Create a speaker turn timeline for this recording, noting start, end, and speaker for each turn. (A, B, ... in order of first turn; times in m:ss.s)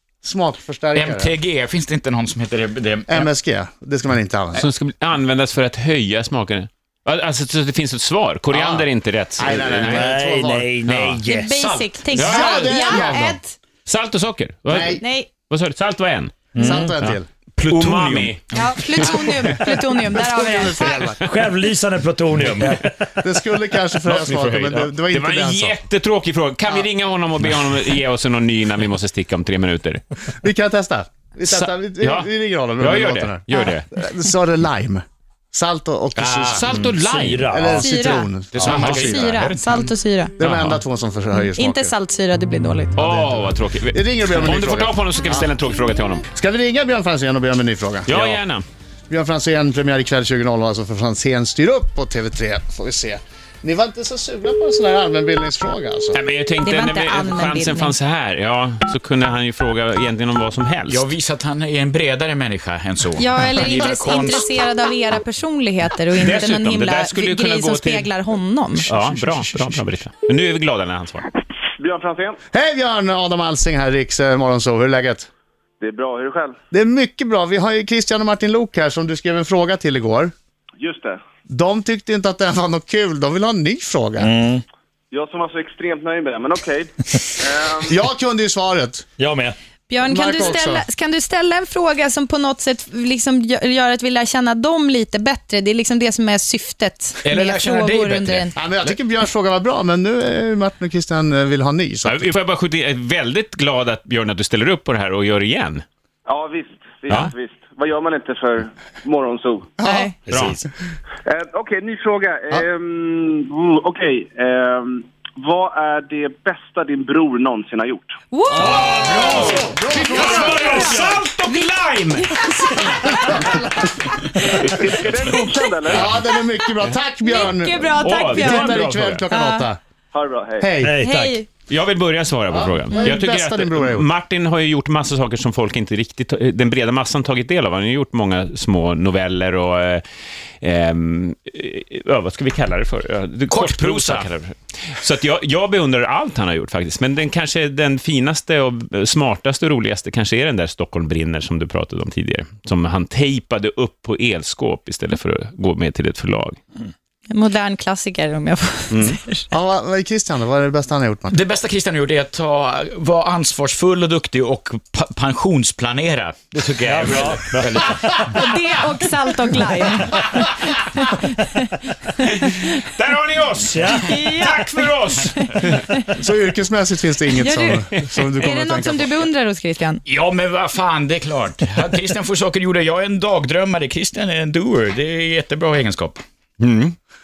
0:00.2-0:01.4 A
0:00.9-0:03.3 B
0:03.1-0:04.7 A
0:04.6-0:10.1 C
0:08.5-0:10.7 A
0:09.9-0:11.5 D
0:10.9-0:11.2 C
0:11.2-0:13.6 E
0:11.6-0:11.8 B
0:12.1-0:13.1 C
0:12.2-0:13.4 A
0:13.9-0:19.6 C
0:14.7-0:15.0 A
0:15.0-0:15.3 E
0:16.5-0:16.9 D
0:16.6-0:17.3 A
0:17.6-0:18.4 B
0:18.5-0:21.1 E
0:19.0-0:21.2 A
0:21.2-0:23.0 D
0:23.2-0:25.8 A
0:24.1-0:24.9 B
0:25.1-0:30.0 C
0:30.3-0:39.4 A
0:31.5-0:33.9 C
0:36.2-0:36.6 B
0:36.5-0:37.6 C
0:36.8-0:38.1 D
0:37.8-0:38.3 E
0:38.5-0:39.8 B
0:38.6-0:39.1 C
0:38.9-0:40.3 E
0:40.4-0:41.9 A
0:40.4-0:40.8 C
0:41.3-0:42.9 E
0:43.0-0:46.3 C
0:43.0-0:45.5 A
0:46.3-0:48.4 A
0:48.1-0:48.6 C
0:49.1-0:56.2 A
0:56.1-1:01.1 C
0:56.6-0:58.0 E
1:00.9-1:04.4 B
1:03.2-1:08.9 E
1:03.6-1:04.0 C
1:06.2-1:08.1 C
1:08.8-1:11.3 C
1:11.8-1:12.4 F
1:12.5-1:15.3 A
1:15.8-1:16.6 F
1:16.7-1:20.3 A
1:20.8-1:21.2 F
1:21.5-1:24.3 A
1:24.2-1:24.6 D
1:25.1-1:28.0 F
1:27.8-1:29.0 A
1:29.2-1:29.6 D
1:29.9-1:38.5 E
1:30.0-1:30.8 A
1:37.2-1:38.9 B
1:38.6-1:42.2 A
1:42.0-1:45.8 C
1:46.3-1:49.7 F
1:49.8-1:50.4 A
1:49.8-1:50.1 E
1:50.3-1:50.6 D
1:50.3-1:50.6 C
1:51.2-1:58.1 F
1:58.3-1:59.5 E
1:58.5-2:01.1 A
1:58.6-2:02.3 C
2:00.1-2:01.6 E
2:00.7-2:01.0 D
2:02.2-2:03.5 E
2:03.0-2:03.9 A
2:04.6-2:09.8 A
2:04.8-2:06.0 F
2:05.2-2:05.5 D
2:07.2-2:09.7 E
2:08.0-2:09.2 C
2:10.1-2:10.7 F
2:10.6-2:11.0 A
2:10.8-2:11.4 D
2:11.0-2:11.5 E
2:11.7-2:20.0 C
2:12.5-2:14.1 A
2:20.6-2:36.6 C
2:23.5-2:24.3 B
2:37.3-2:39.5 E
2:38.9-2:39.2 C
2:39.5-2:41.4 A
2:41.3-2:48.2 B
2:46.7-2:48.0 C
2:46.9-2:47.7 D
2:48.3-2:51.7 E
2:52.2-2:55.9 C
2:53.9-2:56.0 E
2:56.1-2:59.1 A
2:57.4-3:00.0 E
3:00.1-3:06.2 B
3:06.6-3:07.0 C